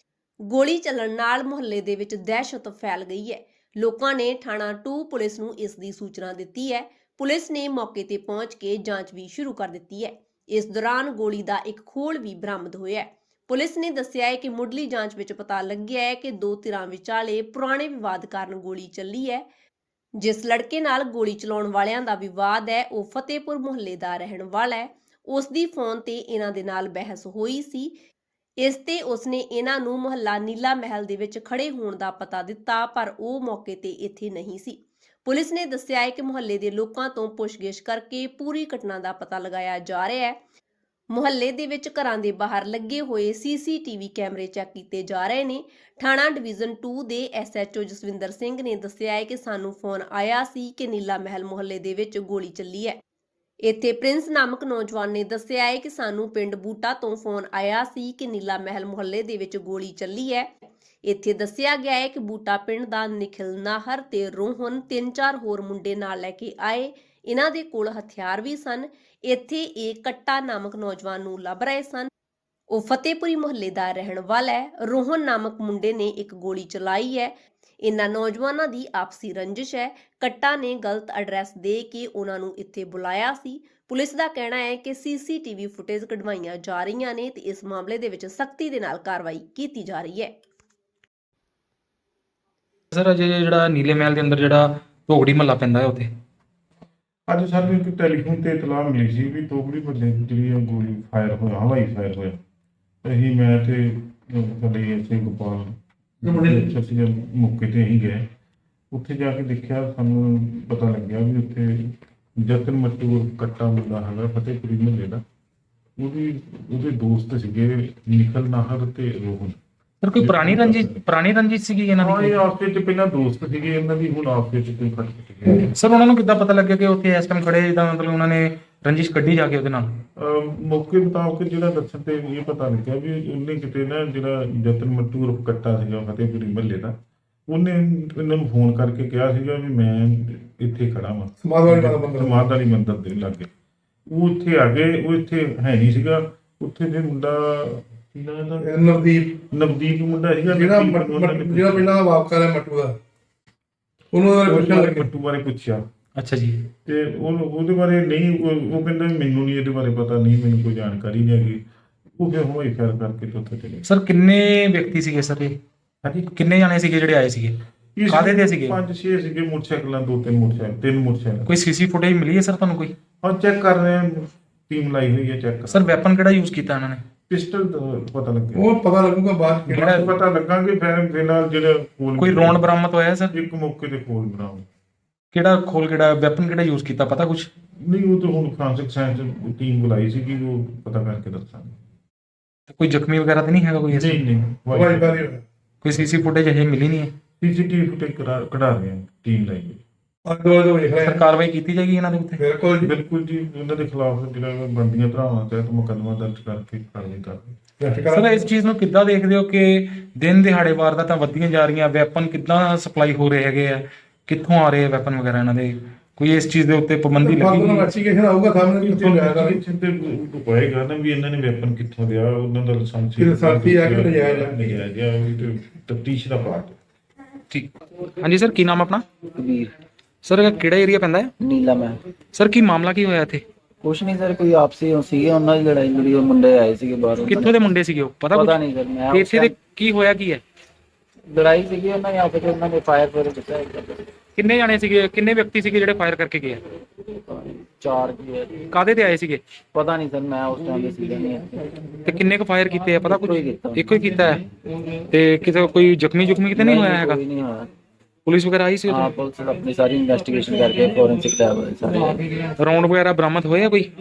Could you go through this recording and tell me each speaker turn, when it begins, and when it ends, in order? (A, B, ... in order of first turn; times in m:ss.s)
0:00.5-0:19.5 A
0:20.2-0:28.0 A
0:28.6-0:40.4 A
0:41.1-0:53.0 A
0:53.6-1:00.5 A
1:01.0-1:12.1 A
1:12.7-1:30.4 A
1:32.9-1:36.1 B
1:37.3-1:42.4 C
1:43.0-1:48.3 C
1:46.2-1:46.6 D
1:48.9-1:55.2 C
1:56.0-1:59.6 C
2:00.0-2:02.4 B
2:00.2-2:01.0 C
2:02.0-2:05.7 C
2:05.7-2:09.9 B
2:10.2-2:17.0 C
2:17.5-2:23.5 C
2:21.4-2:22.5 D
2:24.1-2:28.8 C
2:28.6-2:29.4 D
2:29.4-2:31.9 C
2:30.5-2:33.0 D
2:34.1-2:35.1 D
2:34.4-2:35.8 C
2:36.2-2:36.7 B
2:36.8-2:41.6 C
2:42.2-2:43.8 C
2:43.8-2:45.6 B
2:46.0-2:46.3 C
2:46.3-2:48.8 B
2:48.0-2:51.5 C
2:51.4-2:52.9 B
2:53.2-2:56.0 C
2:55.7-2:57.0 B
2:57.3-2:58.7 C
2:58.5-2:59.8 D
2:59.7-3:02.6 C
2:59.7-3:00.1 B
3:02.2-3:03.3 B
3:03.3-3:04.6 C
3:05.3-3:07.5 B
3:07.8-3:11.8 C
3:12.7-3:14.2 B
3:13.9-3:15.3 C
3:14.7-3:15.4 D
3:15.8-3:17.1 B
3:17.4-3:19.8 C
3:20.2-3:21.2 D
3:21.0-3:22.4 B
3:22.4-3:22.9 D
3:22.8-3:27.5 C
3:27.8-3:28.5 D
3:28.1-3:37.9 B
3:37.2-3:39.6 D
3:38.7-3:46.8 C
3:43.2-3:44.6 D
3:47.5-3:49.1 B
3:49.3-3:49.7 E
3:50.2-3:51.3 B
3:51.4-3:52.0 E
3:52.3-3:53.4 B
3:53.8-3:57.5 E
3:57.2-3:58.6 B
3:58.3-3:59.6 E
3:59.1-4:00.4 B
4:01.3-4:04.1 E
4:04.4-4:06.6 B
4:07.3-4:08.7 E
4:08.7-4:09.4 B
4:09.7-4:11.6 E
4:12.0-4:14.4 B
4:13.0-4:14.1 E
4:15.1-4:17.2 B
4:16.5-4:17.7 E
4:18.2-4:19.1 B
4:18.9-4:22.2 E
4:22.6-4:23.9 B